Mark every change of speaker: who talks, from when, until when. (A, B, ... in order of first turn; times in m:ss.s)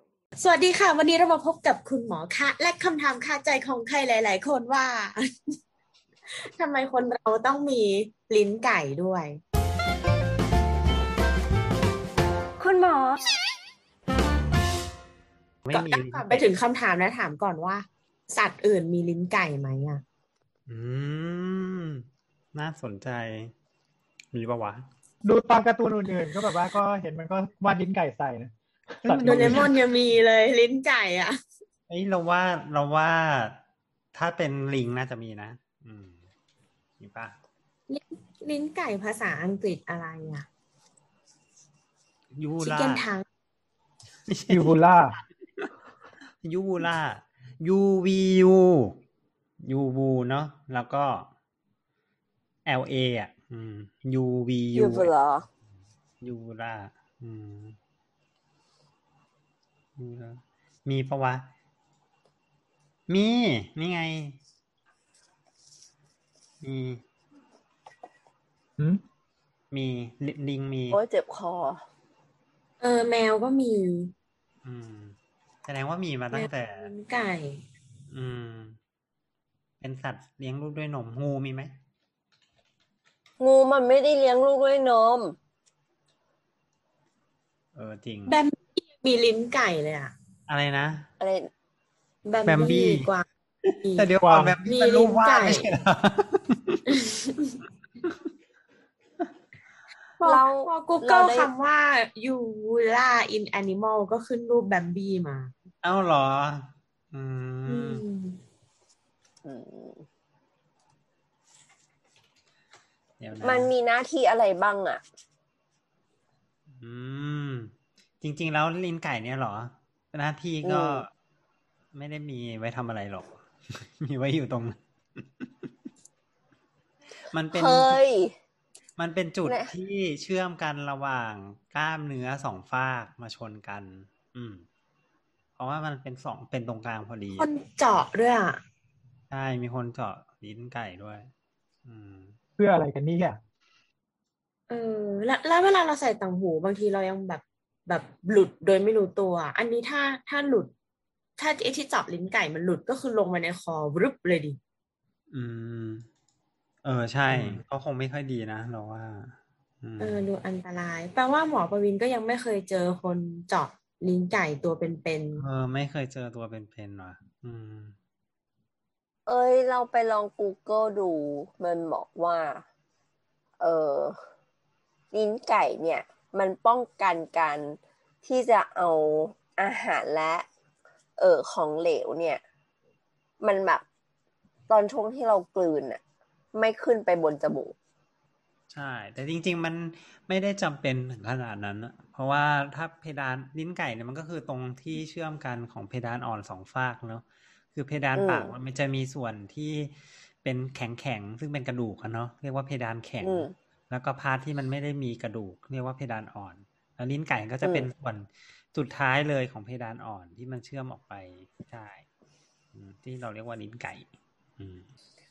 0:00.4-0:05.2 A
0:06.5-0:09.3 A
0:12.6-0:13.2 B
0:15.6-0:16.5 C
0:15.7-0:20.0 A
0:20.7-0:23.5 C
0:24.3-0:24.8 C
0:25.2-0:29.7 D
0:29.0-0:29.8 C
0:29.2-0:31.3 A
0:31.9-0:33.6 C
0:34.1-0:36.2 C
0:37.0-0:37.4 C
0:37.9-0:40.5 A
0:42.3-0:43.0 C
0:42.6-0:43.2 A
0:44.3-0:44.8 C
0:44.5-0:45.2 D
0:46.4-0:49.0 C
0:49.6-0:51.3 C
0:52.6-0:55.1 C
0:54.7-0:55.4 B
0:56.2-0:57.8 C
1:00.0-1:01.5 C
1:03.1-1:04.4 C
1:06.6-1:07.0 C
1:09.7-1:11.0 C
1:10.9-1:11.8 B
1:12.8-1:14.1 A
1:14.6-1:16.9 C
1:16.3-1:17.6 A
1:18.1-1:18.8 C
1:19.8-1:21.7 C
1:23.4-1:25.4 B
1:27.7-1:28.4 C
1:28.3-1:30.1 A
1:30.5-1:31.1 C
1:31.2-1:31.5 B
1:32.2-1:33.2 A
1:32.4-1:33.1 C
1:33.6-1:36.8 C
1:33.8-1:34.1 A
1:34.2-1:34.6 D
1:34.6-1:35.7 A
1:37.0-1:37.5 A
1:40.2-1:45.6 A
1:40.2-1:41.5 B
1:45.8-1:48.0 C
1:47.6-1:48.4 A
1:49.4-1:50.0 B
1:53.2-1:53.7 C
1:53.4-1:55.0 B
1:56.7-2:01.1 C
2:00.6-2:01.0 B
2:01.9-2:05.7 C
2:07.3-2:08.0 C
2:07.5-2:08.4 B
2:09.0-2:14.6 C
2:09.4-2:09.7 B
2:15.6-2:17.5 C
2:17.4-2:18.6 A
2:19.3-2:21.3 C
2:21.8-2:22.3 C
2:22.6-2:23.4 D
2:24.7-2:30.7 A
2:31.4-2:34.6 A
2:35.3-2:36.1 C
2:36.8-2:40.2 C
2:37.3-2:37.6 A
2:40.0-2:45.4 A
2:45.3-2:48.0 C
2:49.2-2:52.6 B
2:53.6-2:54.2 B
2:55.1-3:00.4 B
3:01.2-3:02.4 B
3:03.4-3:03.8 B
3:04.7-3:06.0 B
3:06.5-3:07.7 B
3:08.7-3:32.0 C
3:18.2-3:18.5 B
3:23.2-3:23.5 B
3:27.6-3:27.9 B
3:32.7-3:34.9 C